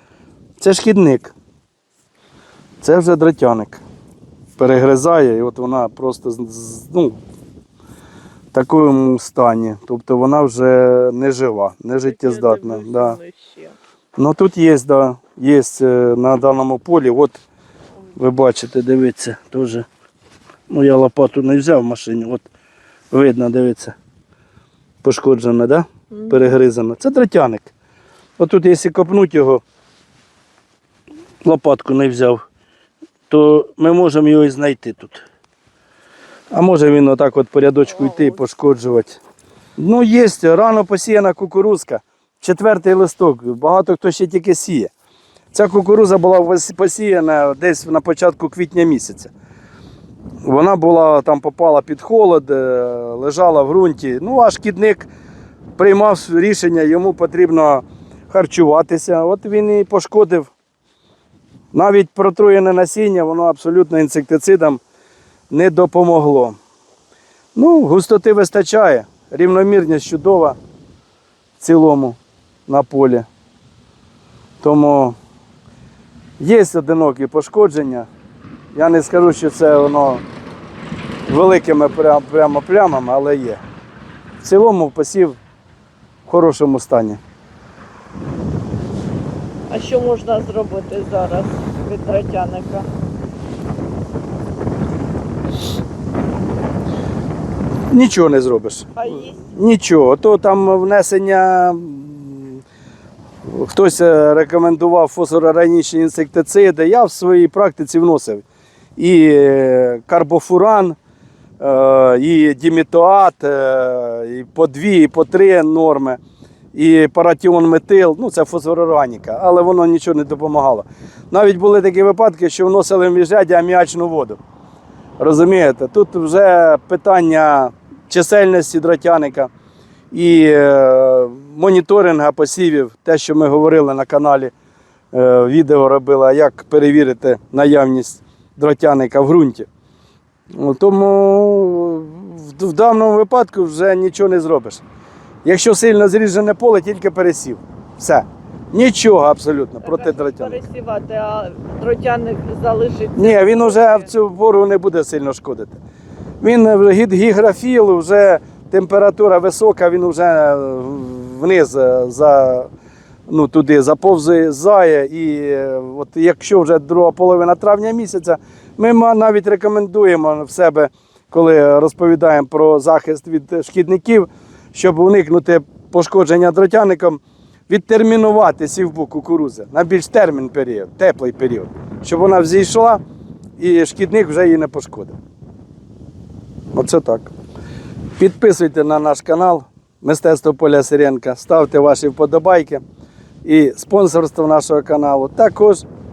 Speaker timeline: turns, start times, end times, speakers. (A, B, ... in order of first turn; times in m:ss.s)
0:00.6-0:01.3 A
0:02.8-0:03.8 A
0:04.6-0:07.2 A
0:08.5-0:13.2 A
0:12.1-0:13.8 B
0:14.2-0:17.4 A
0:18.2-0:19.8 A
0:20.7-0:22.5 A
0:23.1-0:24.0 A
0:25.0-0:27.7 A
0:26.1-0:26.5 B
0:28.4-0:29.6 A
0:31.4-0:32.4 A
0:33.3-0:35.2 A
0:36.5-0:39.2 A
0:37.9-0:38.4 B
0:39.8-0:44.9 A
0:45.5-0:49.3 A
0:50.4-0:55.1 A
0:55.8-1:00.5 A
1:01.7-1:04.8 A
1:05.5-1:06.6 A
1:07.5-1:10.6 A
1:11.6-1:13.3 A
1:14.6-1:15.2 A
1:16.4-1:18.1 A
1:18.7-1:20.2 A
1:21.3-1:23.6 A
1:24.4-1:25.4 A
1:26.2-1:27.2 A
1:29.7-1:32.9 B
1:37.9-1:42.6 A
1:39.0-1:39.4 B
1:43.4-1:48.4 A
1:49.0-1:51.0 A
1:51.6-1:56.2 A
1:56.7-2:04.4 A
2:05.2-2:09.5 A
2:10.1-2:14.5 A
2:15.1-2:19.7 A
2:20.6-2:24.8 A
2:25.4-2:30.6 A
2:29.8-2:34.1 B
2:33.2-2:35.8 A
2:36.4-2:42.7 A
2:43.3-3:03.0 A
3:03.6-3:05.2 A
3:06.7-3:07.3 A
3:08.2-3:12.8 A
3:13.4-3:15.8 A